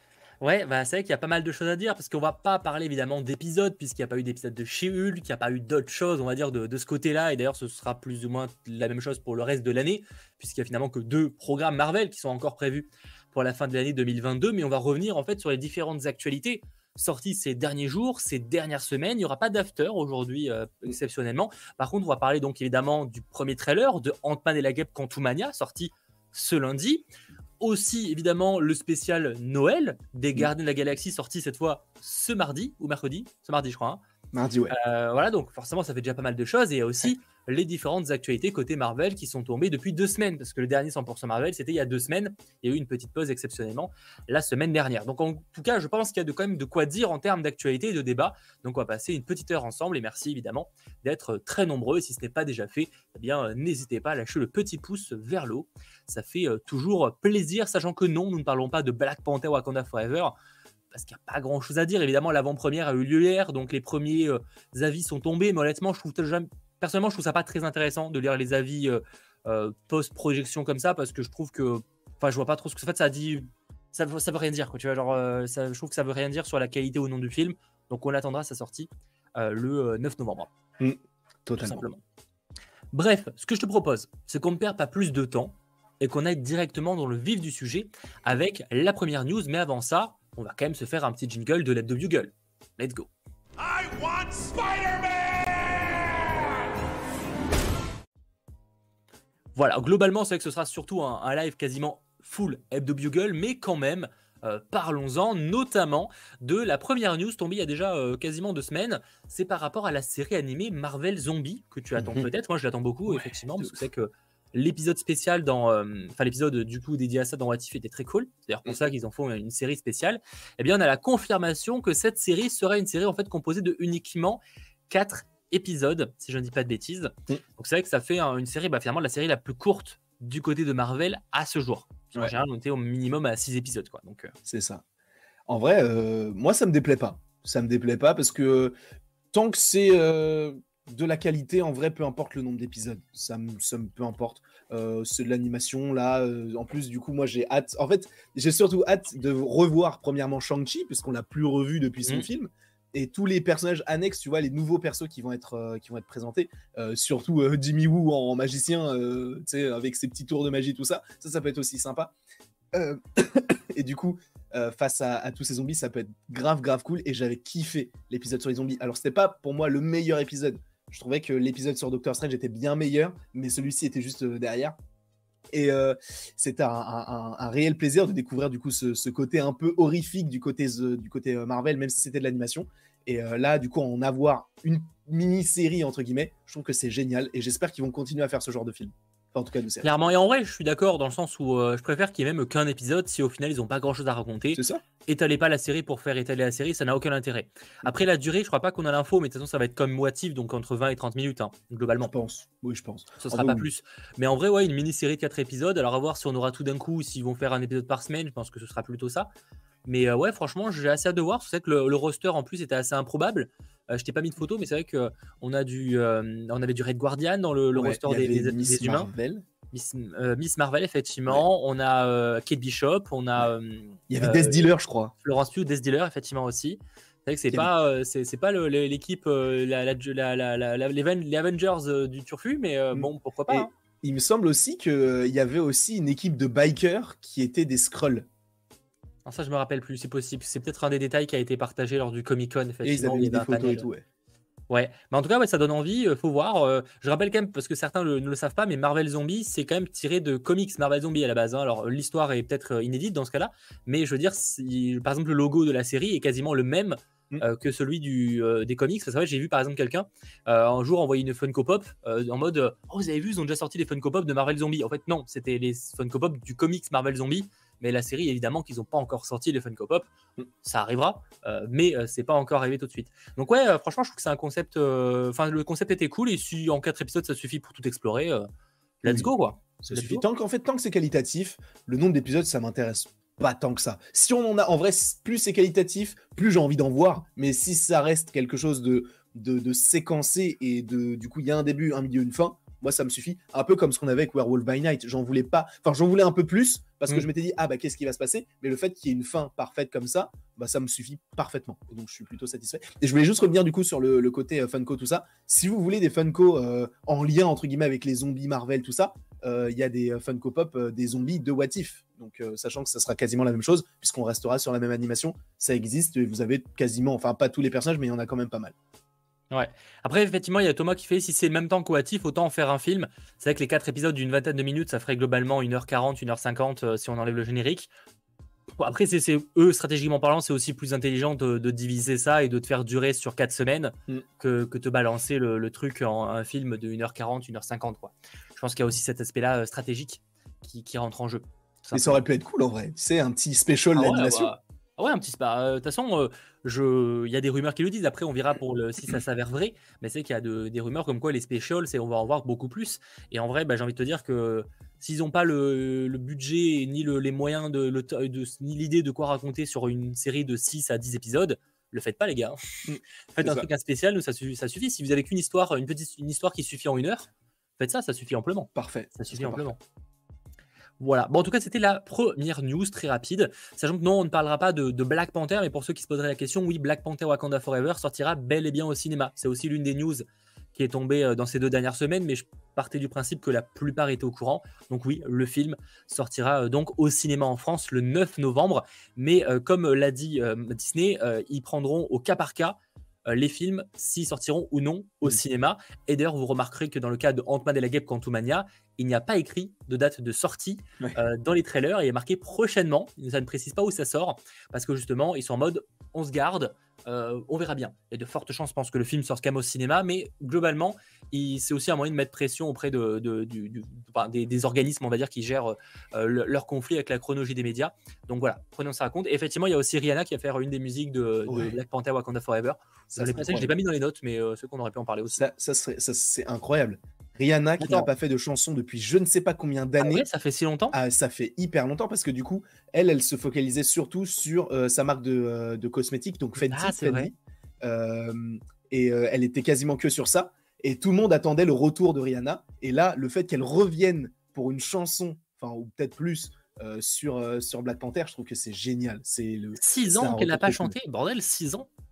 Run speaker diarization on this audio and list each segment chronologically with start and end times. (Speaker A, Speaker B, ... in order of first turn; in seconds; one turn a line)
Speaker A: 0.4-27.0
Speaker A: 27.6-34.0
Speaker B: 34.3-34.7
Speaker A: 34.7-60.3
Speaker A: 60.9-80.5
Speaker B: 80.8-81.8
Speaker A: 81.6-82.0
Speaker A: 82.9-93.1
Speaker C: 93.6-96.6
Speaker A: 99.5-134.3
Speaker B: 112.0-112.3
Speaker B: 113.1-113.7
Speaker B: 134.5-134.8
Speaker B: 135.5-138.8
Speaker B: 139.3-162.1
Speaker B: 162.7-174.8
Speaker B: 175.5-190.0
Speaker A: 189.8-202.1
Speaker B: 194.5-194.8
Speaker B: 202.0-203.7
Speaker A: 203.2-209.3
Speaker A: 209.8-219.1
Speaker B: 217.8-219.4
Speaker A: 219.7-224.7
Speaker B: 224.1-225.1
Speaker A: 225.2-233.7
Speaker B: 232.9-238.3
Speaker A: 239.3-243.9
Speaker B: 242.8-244.0
Speaker A: 244.7-270.1
Speaker A: 270.6-278.5
Speaker A: 279.0-280.2
Speaker B: 279.8-318.8
Speaker A: 319.5-327.9
Speaker A: 328.8-342.2
Speaker B: 341.9-344.5
Speaker A: 343.9-369.8
Speaker B: 362.9-363.7
Speaker B: 368.8-369.7
Speaker A: 371.0-425.4
Speaker B: 421.5-421.8
Speaker B: 423.1-423.7
Speaker B: 425.3-430.2
Speaker A: 427.8-428.1
Speaker A: 430.0-431.0
Speaker B: 430.9-450.9
Speaker A: 436.6-437.3
Speaker A: 449.8-451.9